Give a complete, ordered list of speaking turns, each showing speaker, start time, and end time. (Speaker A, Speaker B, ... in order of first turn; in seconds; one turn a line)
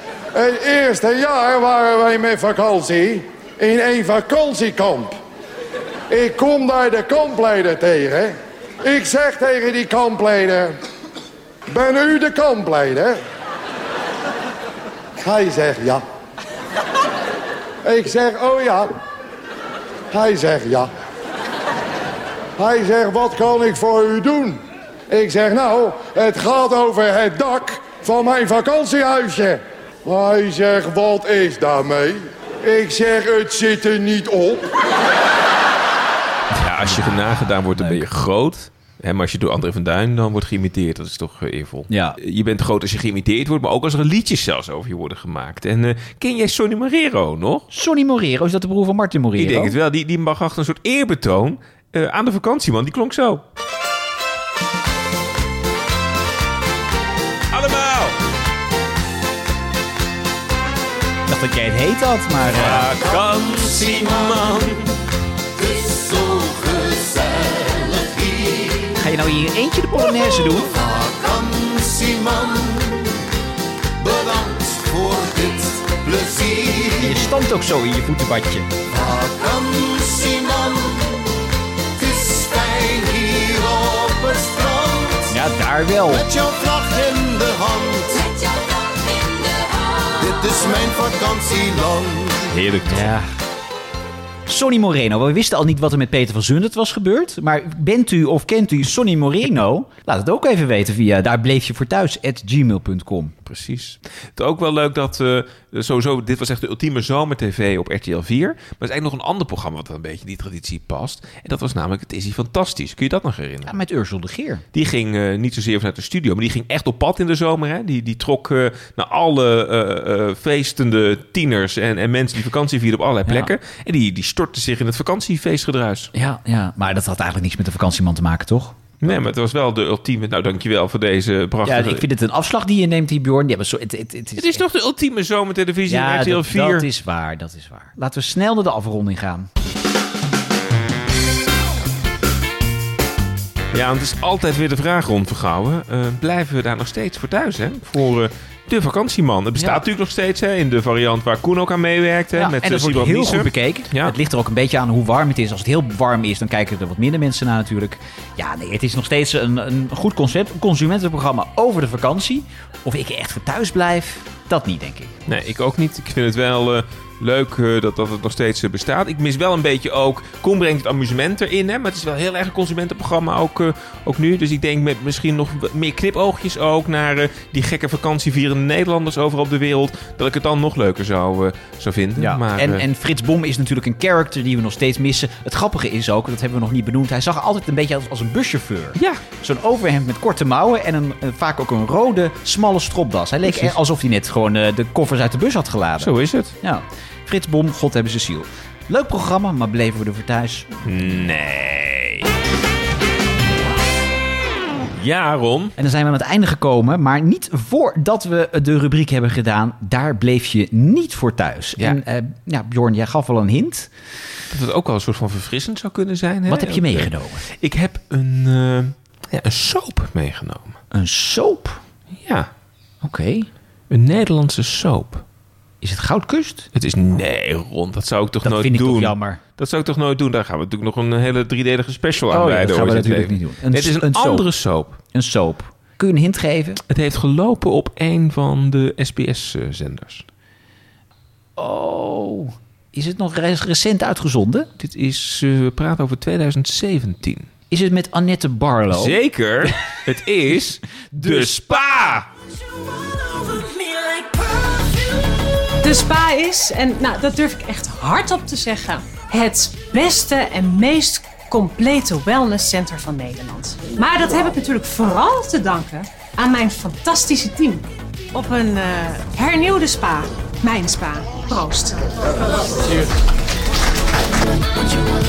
Speaker A: 0.3-5.2
Speaker A: 6.1-10.8
Speaker A: 11.7-13.2
Speaker A: 15.2-16.0
Speaker A: 17.9-18.9
Speaker A: 20.1-20.9
Speaker A: 22.6-24.6
Speaker A: 25.1-34.6
Speaker B: 36.6-47.7
Speaker C: 36.9-38.0
Speaker C: 41.9-42.2
Speaker C: 47.7-49.8
Speaker B: 49.4-53.4
Speaker B: 57.5-58.2
Speaker C: 61.3-62.9
Speaker B: 62.5-64.9
Speaker C: 69.0-70.8
Speaker D: 74.7-75.5
Speaker D: 76.1-76.4
Speaker C: 76.9-78.7
Speaker D: 79.2-80.6
Speaker D: 82.2-84.7
Speaker C: 85.3-86.3
Speaker D: 86.3-88.1
Speaker D: 90.3-92.3
Speaker B: 92.5-93.1
Speaker C: 92.9-93.3
Speaker C: 94.5-103.3
Speaker B: 103.5-113.7
Speaker C: 113.7-114.6
Speaker B: 114.7-126.1
Speaker C: 126.1-129.2
Speaker B: 129.0-132.1
Speaker C: 131.7-134.6
Speaker B: 134.4-136.9
Speaker C: 135.9-139.5
Speaker B: 143.7-154.2
Speaker C: 149.6-149.8
Speaker C: 152.4-165.1
Speaker B: 165.3-182.8
Speaker C: 182.2-196.1
Speaker B: 189.0-189.2
Speaker B: 193.5-193.7
Speaker B: 196.0-196.6
Speaker C: 196.6-201.2
Speaker B: 200.9-202.3
Speaker B: 205.0-205.7
Speaker C: 205.8-213.9
Speaker B: 214.5-220.8
Speaker C: 216.5-217.4
Speaker C: 220.9-221.8
Speaker B: 222.2-222.5
Speaker C: 223.0-223.5
Speaker B: 223.9-225.2
Speaker C: 225.8-226.7
Speaker B: 226.7-235.0
Speaker C: 228.4-229.4
Speaker C: 232.3-234.5
Speaker C: 235.1-236.8
Speaker B: 236.9-240.2
Speaker C: 241.6-244.7
Speaker B: 244.8-247.5
Speaker C: 247.7-249.2
Speaker B: 248.9-252.3
Speaker C: 251.1-252.2
Speaker E: 255.8-272.0